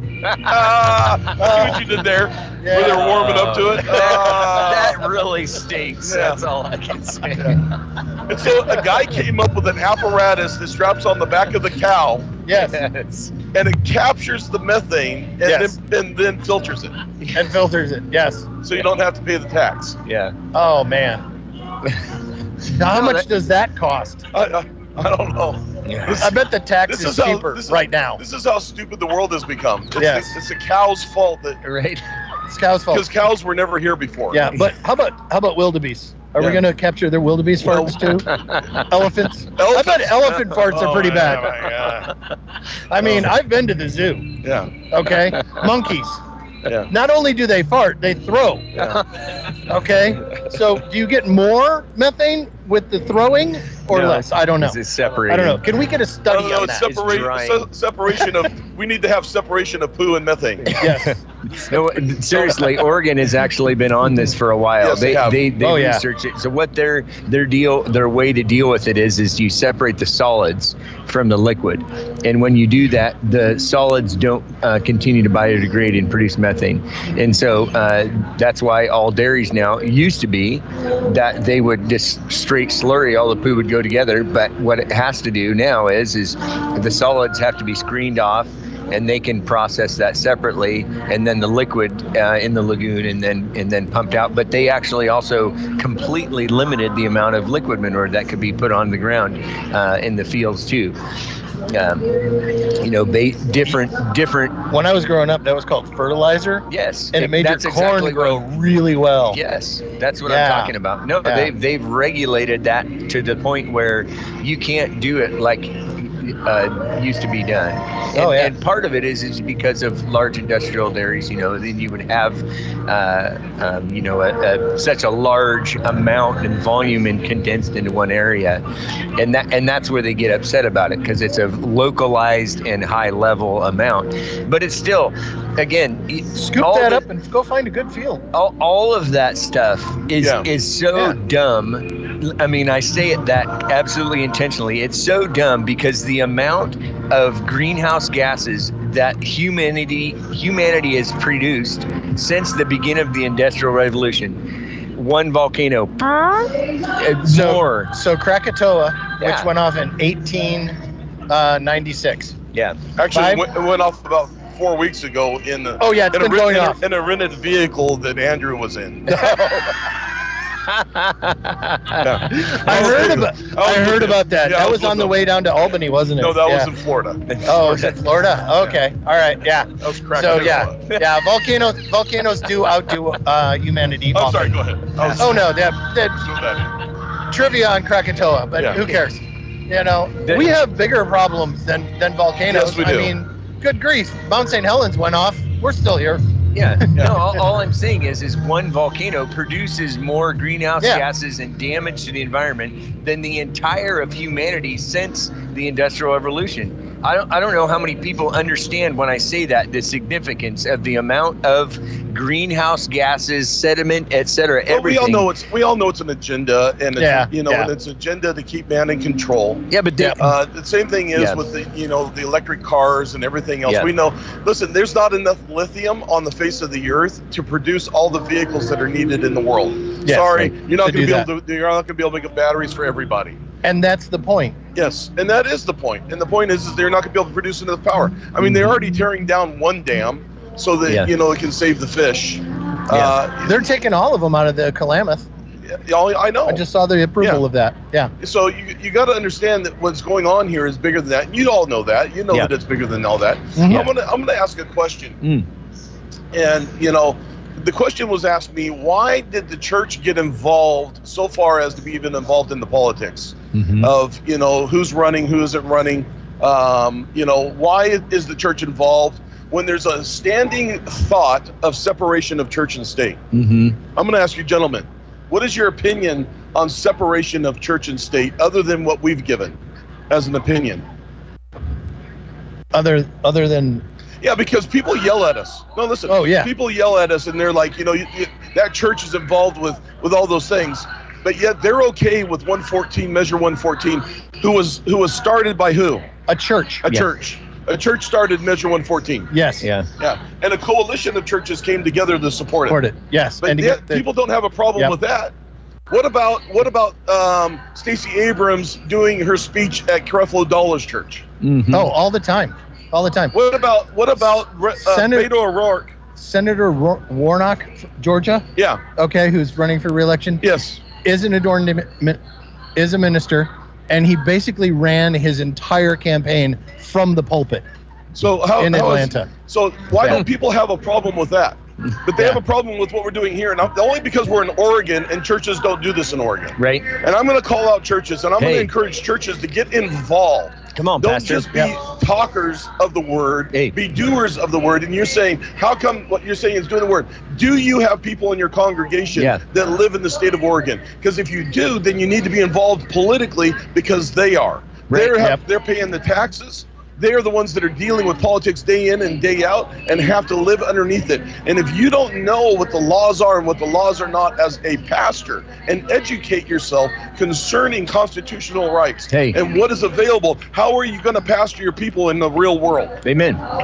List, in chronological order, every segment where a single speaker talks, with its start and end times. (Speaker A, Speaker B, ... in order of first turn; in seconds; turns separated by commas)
Speaker A: 0.2-1.3, Speaker B: 0.4-5.1, Speaker C: 1.4-1.8, Speaker C: 2.6-3.2, Speaker A: 2.7-7.7, Speaker B: 6.0-6.4, Speaker B: 8.3-12.4, Speaker C: 12.4-12.8, Speaker A: 12.5-13.3, Speaker B: 13.5-17.0, Speaker C: 15.4-15.8, Speaker A: 17.2-17.5, Speaker C: 17.3-18.5, Speaker B: 18.6-20.0, Speaker A: 20.1-20.4, Speaker C: 20.5-21.2, Speaker C: 22.7-24.3, Speaker A: 22.8-23.3, Speaker B: 24.3-31.6, Speaker A: 25.9-26.3, Speaker C: 26.2-28.2, Speaker C: 30.0-30.4, Speaker A: 31.6-32.0, Speaker C: 32.5-33.1, Speaker B: 32.9-34.5, Speaker C: 34.3-41.7, Speaker B: 37.6-38.2, Speaker A: 38.3-38.8, Speaker B: 39.6-42.1, Speaker C: 42.9-44.4, Speaker B: 44.4-44.7, Speaker C: 44.9-46.2, Speaker C: 46.9-48.9, Speaker C: 49.7-56.9, Speaker A: 53.9-55.6, Speaker B: 56.3-60.8, Speaker A: 56.8-57.7, Speaker A: 60.7-101.0, Speaker C: 60.7-61.2, Speaker B: 62.3-62.8, Speaker B: 64.8-65.4, Speaker C: 65.6-66.0, Speaker A: 101.7-104.6, Speaker C: 104.7-109.4, Speaker A: 106.7-108.4, Speaker A: 109.3-128.6, Speaker C: 110.3-111.5, Speaker C: 118.1-118.5, Speaker A: 129.2-137.1, Speaker C: 136.4-138.3, Speaker A: 138.3-157.9, Speaker B: 140.2-140.5, Speaker C: 157.2-160.8, Speaker A: 159.2-159.5, Speaker C: 161.3-162.4, Speaker A: 162.5-162.8, Speaker B: 163.0-169.2, Speaker C: 163.1-163.4, Speaker C: 165.8-166.8, Speaker C: 169.1-169.8, Speaker A: 170.6-172.9, Speaker B: 172.0-175.3, Speaker C: 172.3-176.7, Speaker B: 176.2-177.4, Speaker A: 177.3-178.0, Speaker C: 177.4-184.6, Speaker B: 179.8-180.8, Speaker B: 184.1-185.5, Speaker C: 185.2-186.3, Speaker B: 186.2-186.7, Speaker C: 187.3-196.2, Speaker A: 190.3-190.5, Speaker B: 192.5-193.1, Speaker A: 196.5-215.3, Speaker B: 214.7-219.7, Speaker C: 217.0-217.7, Speaker A: 219.7-220.3, Speaker B: 220.2-233.4, Speaker A: 221.2-221.5, Speaker A: 223.7-223.9, Speaker C: 230.0-231.3, Speaker C: 233.6-234.6, Speaker B: 234.8-243.6, Speaker A: 242.9-243.2, Speaker C: 243.4-245.3, Speaker B: 245.7-246.6, Speaker C: 246.5-248.1, Speaker B: 248.2-255.2, Speaker C: 253.6-253.9, Speaker B: 256.3-273.2, Speaker A: 263.5-263.9, Speaker A: 273.3-273.8, Speaker B: 273.9-279.6, Speaker B: 280.1-280.8, Speaker C: 282.7-283.8, Speaker B: 284.2-296.1, Speaker C: 286.1-286.5, Speaker C: 296.3-296.9, Speaker B: 296.9-299.3, Speaker C: 299.3-299.7, Speaker A: 299.6-299.9, Speaker B: 300.0-302.8, Speaker C: 302.7-304.0, Speaker B: 303.4-305.3, Speaker B: 305.9-311.2, Speaker A: 311.4-311.9, Speaker C: 311.7-313.3, Speaker B: 313.3-315.9, Speaker C: 314.8-315.3, Speaker C: 316.2-320.4, Speaker B: 318.6-318.8, Speaker B: 320.4-320.8, Speaker C: 321.0-322.2, Speaker C: 322.8-327.6, Speaker B: 328.1-373.0, Speaker C: 328.6-329.3, Speaker A: 336.6-336.9, Speaker A: 338.4-338.7, Speaker A: 340.8-341.5, Speaker A: 349.2-349.4, Speaker A: 354.9-355.2, Speaker A: 369.1-369.4, Speaker A: 373.0-373.4